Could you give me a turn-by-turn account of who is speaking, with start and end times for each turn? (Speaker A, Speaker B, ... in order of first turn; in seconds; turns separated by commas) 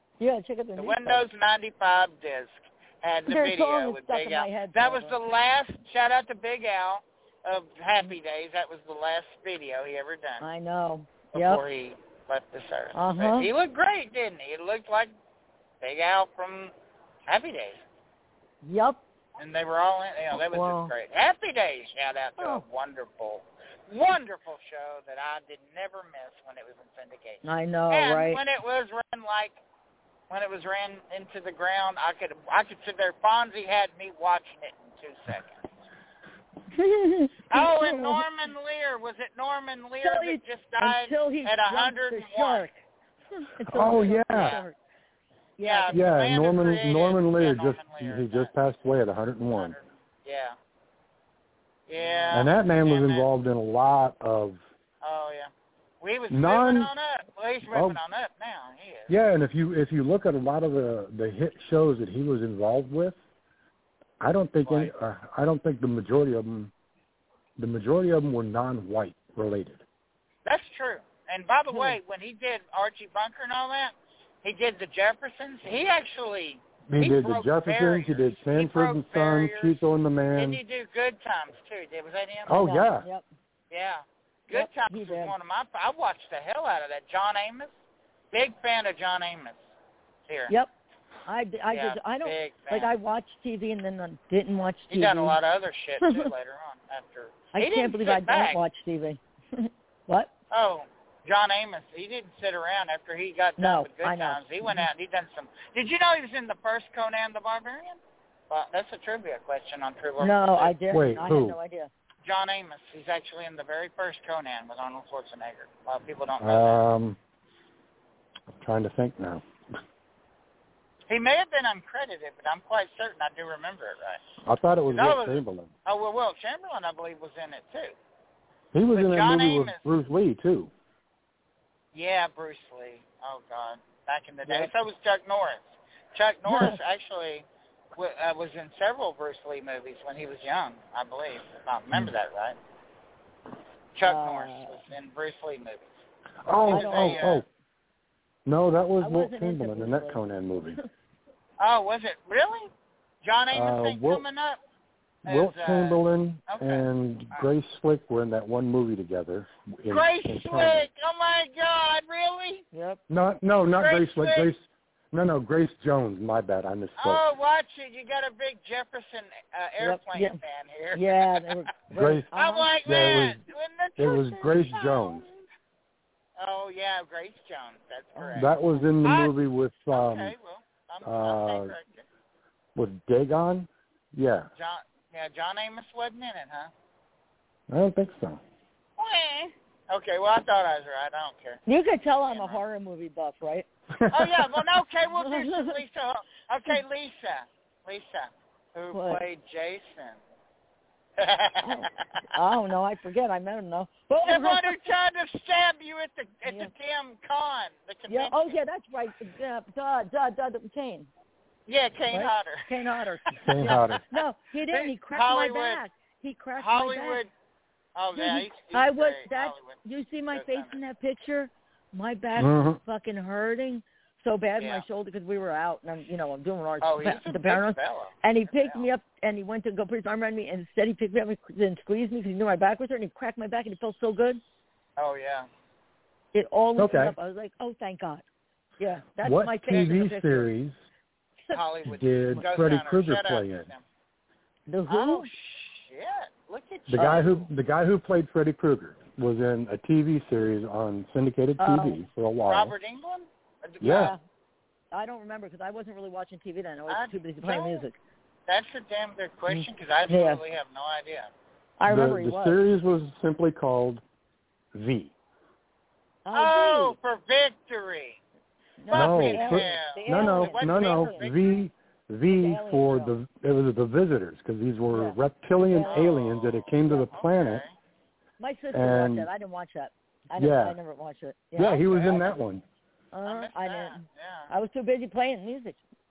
Speaker A: 0.2-1.2, Speaker B: 0.8-10.4, Speaker A: 3.3-5.2, Speaker A: 10.4-11.6, Speaker B: 11.3-15.1, Speaker A: 12.9-13.5, Speaker B: 15.8-16.7, Speaker B: 17.3-17.8, Speaker A: 18.6-19.0, Speaker B: 19.4-29.6, Speaker A: 20.5-20.9, Speaker A: 22.4-22.6, Speaker A: 27.4-28.4, Speaker B: 30.3-35.6, Speaker A: 36.8-38.2, Speaker B: 37.5-42.7, Speaker A: 40.0-42.8, Speaker A: 43.4-44.8, Speaker C: 43.7-44.6, Speaker B: 44.0-44.6, Speaker A: 45.6-46.1, Speaker B: 45.6-48.5, Speaker C: 45.9-49.8, Speaker B: 49.5-50.6, Speaker B: 51.9-53.3, Speaker A: 52.0-52.5, Speaker C: 52.3-54.6, Speaker B: 55.0-55.5, Speaker B: 56.0-59.1, Speaker C: 56.3-56.9, Speaker C: 57.7-58.0, Speaker C: 59.1-63.2, Speaker C: 64.2-66.7, Speaker B: 64.7-64.9, Speaker C: 67.6-69.8, Speaker B: 70.5-79.8, Speaker C: 76.9-80.6, Speaker B: 80.3-82.7, Speaker C: 82.5-83.1, Speaker A: 82.6-83.3, Speaker B: 83.7-87.7, Speaker A: 84.5-85.3, Speaker B: 88.3-89.6, Speaker B: 90.3-90.5, Speaker A: 91.3-95.4, Speaker B: 91.7-92.9, Speaker B: 94.9-98.6, Speaker A: 96.0-96.3, Speaker A: 97.5-100.3, Speaker B: 100.5-110.7, Speaker A: 103.6-104.9, Speaker A: 110.2-111.9, Speaker C: 110.9-111.6, Speaker B: 112.2-116.8, Speaker C: 116.4-117.2, Speaker C: 118.6-119.4, Speaker B: 121.1-124.2, Speaker C: 124.4-125.7, Speaker B: 124.9-128.0, Speaker C: 128.7-130.7, Speaker B: 128.9-129.8, Speaker B: 131.9-142.6, Speaker A: 134.5-134.7, Speaker A: 136.5-136.8, Speaker B: 144.0-146.0, Speaker A: 144.1-144.8, Speaker C: 146.5-147.5, Speaker A: 146.7-147.2, Speaker B: 146.7-147.4, Speaker C: 148.4-150.8, Speaker A: 149.0-150.2, Speaker B: 151.6-152.7, Speaker B: 153.2-154.6, Speaker C: 153.5-154.2, Speaker C: 155.2-160.9, Speaker B: 155.3-157.5, Speaker B: 159.9-162.7, Speaker A: 162.7-163.0, Speaker C: 163.1-167.2, Speaker B: 163.8-164.5, Speaker B: 167.0-171.6, Speaker A: 169.8-170.4, Speaker A: 170.9-172.7, Speaker C: 171.9-172.3, Speaker B: 172.3-175.5, Speaker C: 172.8-173.4, Speaker C: 174.0-175.2, Speaker B: 176.4-179.3, Speaker A: 178.2-178.8, Speaker C: 178.3-180.3, Speaker B: 179.9-182.1, Speaker C: 181.1-181.8, Speaker C: 182.8-184.5, Speaker B: 184.6-186.7, Speaker C: 187.7-188.4, Speaker B: 189.0-191.6, Speaker A: 191.7-193.7, Speaker B: 192.3-192.6, Speaker C: 194.0-194.3, Speaker B: 194.1-200.2, Speaker A: 195.2-195.8, Speaker A: 198.9-199.2, Speaker B: 201.2-202.1, Speaker A: 201.6-204.8, Speaker B: 204.2-208.6, Speaker A: 206.5-206.7, Speaker A: 208.1-211.1, Speaker B: 211.7-212.7, Speaker A: 212.1-217.2, Speaker B: 213.3-215.8, Speaker C: 213.4-214.0, Speaker B: 216.6-217.3, Speaker B: 218.0-219.8, Speaker A: 218.2-234.4, Speaker B: 220.3-220.8, Speaker C: 222.4-222.8, Speaker B: 224.6-224.8, Speaker B: 226.8-228.9, Speaker B: 235.0-235.5, Speaker A: 236.3-238.2, Speaker C: 236.8-237.2, Speaker A: 238.8-240.5, Speaker C: 239.2-240.8, Speaker B: 241.5-243.8, Speaker C: 241.9-243.7, Speaker A: 244.7-245.3, Speaker B: 244.9-247.5, Speaker C: 246.9-252.8, Speaker A: 247.0-247.2, Speaker A: 251.6-252.1, Speaker B: 252.5-254.2, Speaker C: 253.8-254.2, Speaker A: 253.9-254.2, Speaker A: 254.9-257.9, Speaker B: 256.9-257.9, Speaker B: 258.5-261.3, Speaker A: 260.1-260.4, Speaker A: 261.8-262.6, Speaker C: 261.9-264.0, Speaker C: 264.7-265.1, Speaker A: 266.2-267.0, Speaker B: 266.3-268.2, Speaker A: 268.8-271.2, Speaker B: 268.9-271.6, Speaker C: 268.9-277.6, Speaker A: 272.3-273.1, Speaker A: 274.9-276.1, Speaker B: 275.8-277.7, Speaker A: 278.4-281.9, Speaker C: 278.7-279.3, Speaker C: 280.4-280.8, Speaker C: 281.6-282.6, Speaker B: 281.6-282.3, Speaker A: 283.1-285.8, Speaker B: 283.2-284.5